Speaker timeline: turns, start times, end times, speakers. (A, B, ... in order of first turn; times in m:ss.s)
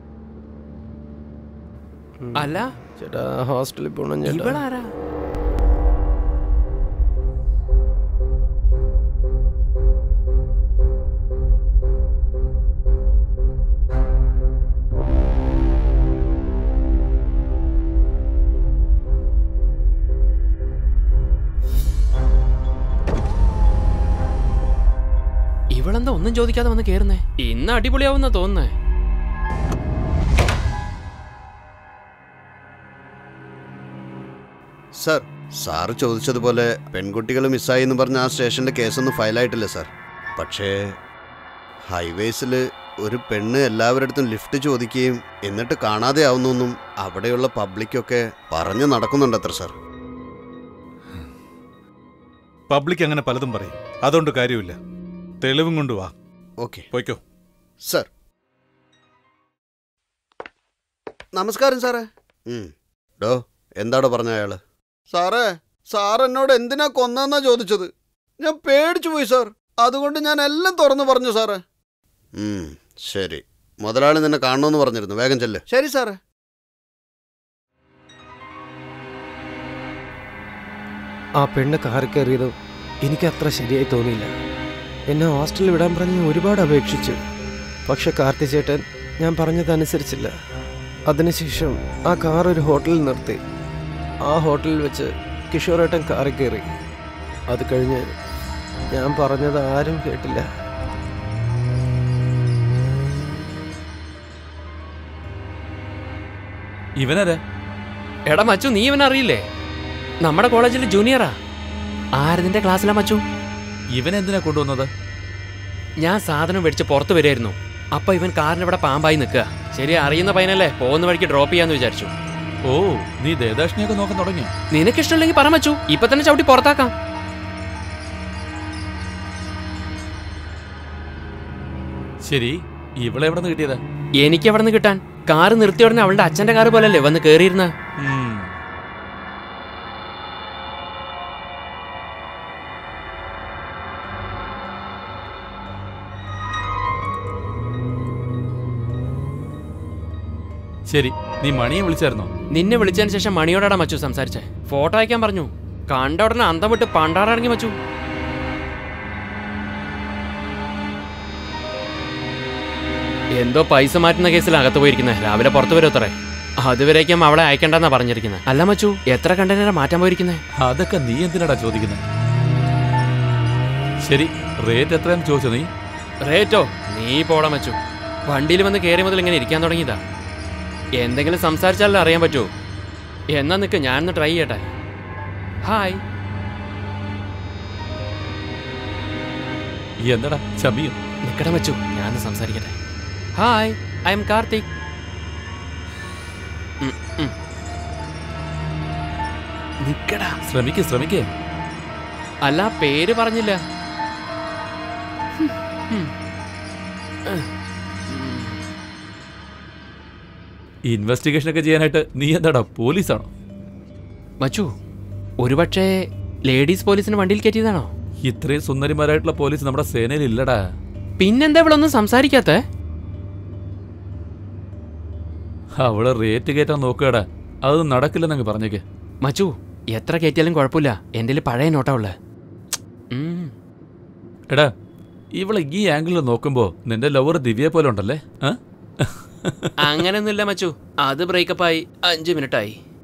0:02.2-0:04.6 A
0:02.4-0:02.7 B
0:04.3-0:04.9 B
0:25.7-0:28.7 B
0:35.0-0:41.0 C
0:41.9-0:49.7 C
0:52.7-0:54.8 D
0:55.4-0:56.1 D
0:56.6-0:56.9 C
0:56.9-0:57.2 D
1:01.4-1:04.6 C
1:05.1-1:11.6 C
1:12.4-1:16.2 C
1:21.4-1:24.3 A
1:25.1-1:27.2 A
1:27.9-1:30.3 A
1:31.1-1:33.4 A
1:34.2-1:36.7 A
1:37.5-1:38.1 A
1:38.9-1:40.5 A
1:47.0-1:47.4 E
1:48.3-1:49.4 B
1:50.2-1:51.4 B
1:52.2-1:53.2 B
1:53.9-1:54.9 E
1:56.0-2:02.1 B
2:02.7-2:04.5 E
2:04.7-2:06.9 B
2:12.2-2:13.8 E
2:14.2-2:17.7 B
2:18.0-2:18.5 E
2:30.9-2:32.3 E
2:32.5-2:37.7 B
2:43.4-2:50.4 B
2:50.6-2:52.0 E
2:54.0-2:55.7 E
2:56.2-3:00.0 B
3:01.0-3:02.5 B
3:03.3-3:04.7 B
3:05.6-3:06.0 B
3:10.0-3:11.0 E
3:11.2-3:12.8 B
3:13.4-3:14.6 B
3:16.8-3:17.3 B
3:19.8-3:20.4 B
3:20.4-3:21.3 E
3:22.4-3:23.6 B
3:25.4-3:26.1 B
3:28.1-3:28.6 B
3:30.9-3:33.3 E
3:34.4-3:34.7 B
3:35.4-3:37.9 B
3:38.2-3:40.6 E
3:41.2-3:42.6 B
3:45.8-3:48.8 E
3:49.2-3:52.2 B
3:53.1-3:53.5 B
3:55.4-3:59.7 E
3:59.8-4:02.8 B